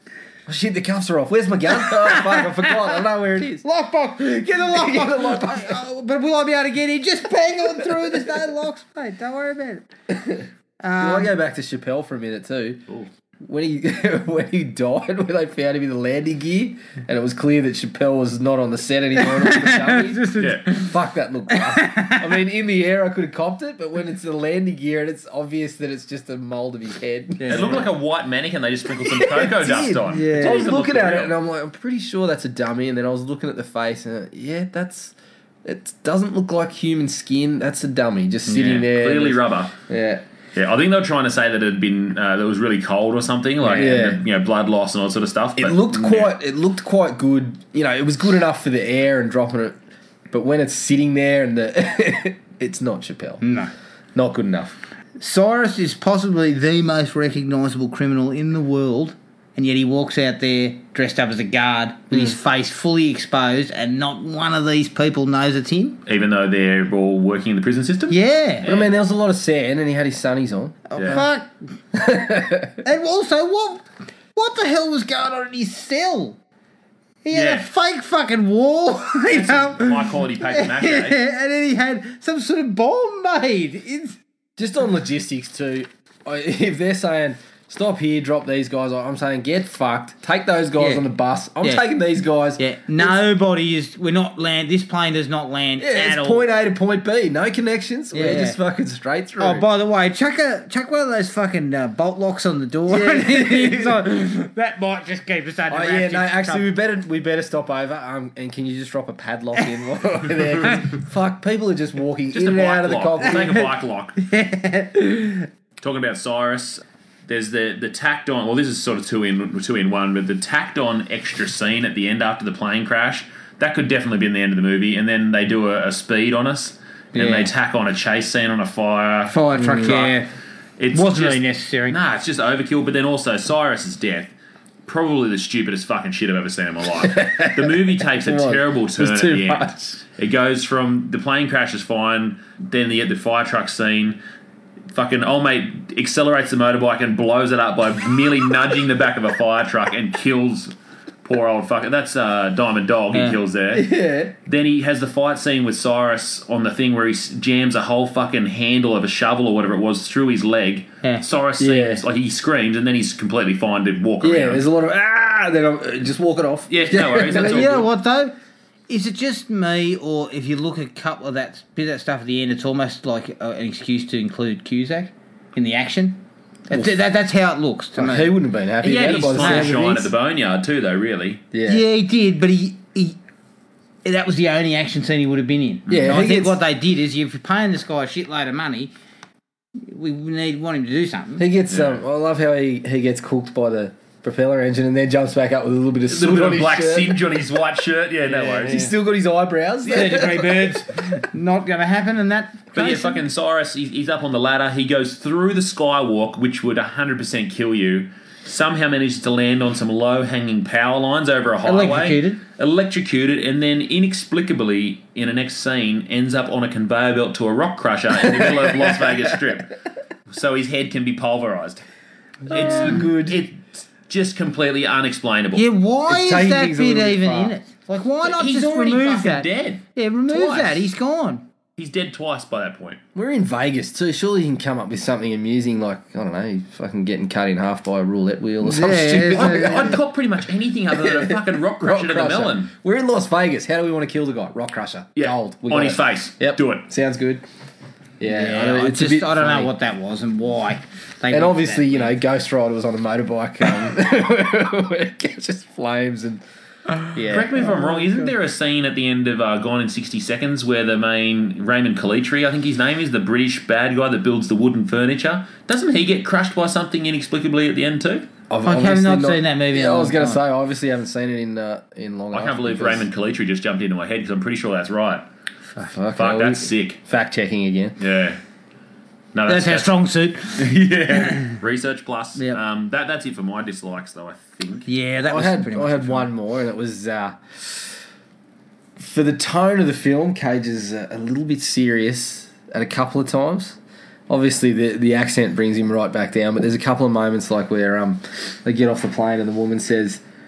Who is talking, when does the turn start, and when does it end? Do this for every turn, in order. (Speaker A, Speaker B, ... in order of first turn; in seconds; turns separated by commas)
Speaker A: 0.5-3.6, Speaker B: 1.7-3.0, Speaker B: 3.6-9.9, Speaker A: 4.4-5.8, Speaker A: 7.8-8.2, Speaker A: 10.1-10.5, Speaker B: 10.8-11.3, Speaker A: 11.0-12.8, Speaker A: 13.4-27.9, Speaker B: 19.2-20.9, Speaker C: 20.4-20.6, Speaker B: 21.5-22.3, Speaker B: 27.4-27.7, Speaker C: 27.5-31.3, Speaker A: 29.1-40.2, Speaker B: 30.1-30.6, Speaker C: 38.5-39.7, Speaker C: 40.5-46.3, Speaker A: 43.7-44.2, Speaker A: 45.6-49.8, Speaker A: 50.3-53.4, Speaker B: 53.4-53.7, Speaker A: 54.1-54.8, Speaker B: 55.2-66.0, Speaker C: 66.0-69.0, Speaker B: 68.1-68.7, Speaker A: 68.7-70.9, Speaker B: 70.9-71.5, Speaker C: 71.0-71.2, Speaker A: 71.9-72.8, Speaker B: 72.8-76.4, Speaker B: 77.2-84.2, Speaker C: 77.3-77.7, Speaker C: 79.3-81.2, Speaker A: 84.6-93.2, Speaker B: 90.8-91.0, Speaker B: 91.6-92.0, Speaker B: 92.6-96.5, Speaker A: 95.8-99.7, Speaker B: 98.1-98.6, Speaker B: 99.4-106.7, Speaker A: 102.9-104.0, Speaker A: 105.7-113.5, Speaker C: 112.3-114.2, Speaker B: 113.2-113.7, Speaker B: 114.2-115.5, Speaker C: 115.8-130.2, Speaker B: 127.1-127.5, Speaker B: 129.3-130.3, Speaker A: 129.6-129.9, Speaker C: 130.8-134.3, Speaker B: 130.9-132.0, Speaker C: 134.8-144.2, Speaker A: 137.0-139.7, Speaker C: 144.9-150.7, Speaker C: 151.2-164.6, Speaker B: 153.1-153.4, Speaker A: 153.7-154.3, Speaker A: 161.6-162.0, Speaker A: 164.2-167.8, Speaker C: 166.7-167.9, Speaker B: 167.3-168.3, Speaker B: 168.9-178.4, Speaker A: 176.7-176.9, Speaker A: 177.9-180.1, Speaker C: 178.8-181.4, Speaker B: 179.4-179.7, Speaker A: 181.5-181.8, Speaker B: 181.6-183.2, Speaker B: 184.0-188.9, Speaker C: 185.9-186.2, Speaker A: 185.9-186.6, Speaker B: 189.8-191.4, Speaker A: 191.4-197.2, Speaker C: 191.7-192.0, Speaker C: 196.1-198.8, Speaker B: 198.3-198.9, Speaker A: 198.6-200.6, Speaker B: 199.8-203.2, Speaker C: 202.7-219.8, Speaker B: 211.6-212.4, Speaker A: 218.1-219.4, Speaker C: 220.3-221.8, Speaker A: 222.4-223.4, Speaker C: 222.4-225.7, Speaker B: 222.5-223.0, Speaker B: 225.6-231.4, Speaker A: 226.1-227.6, Speaker C: 228.0-230.8, Speaker C: 231.8-233.0, Speaker A: 233.1-240.0, Speaker B: 238.6-240.0, Speaker C: 239.3-242.7, Speaker A: 240.9-247.4, Speaker C: 245.2-246.8, Speaker A: 248.2-249.7, Speaker B: 248.2-252.1, Speaker A: 251.3-256.4, Speaker A: 257.1-258.3, Speaker C: 257.2-268.3, Speaker A: 268.5-273.1, Speaker B: 268.6-270.4, Speaker C: 272.3-275.3, Speaker A: 275.9-278.0, Speaker C: 276.1-277.0, Speaker C: 278.0-278.4, Speaker C: 279.3-279.9, Speaker B: 279.5-281.6, Speaker C: 280.6-284.9, Speaker B: 284.9-286.3, Speaker A: 285.3-288.0, Speaker A: 289.0-300.2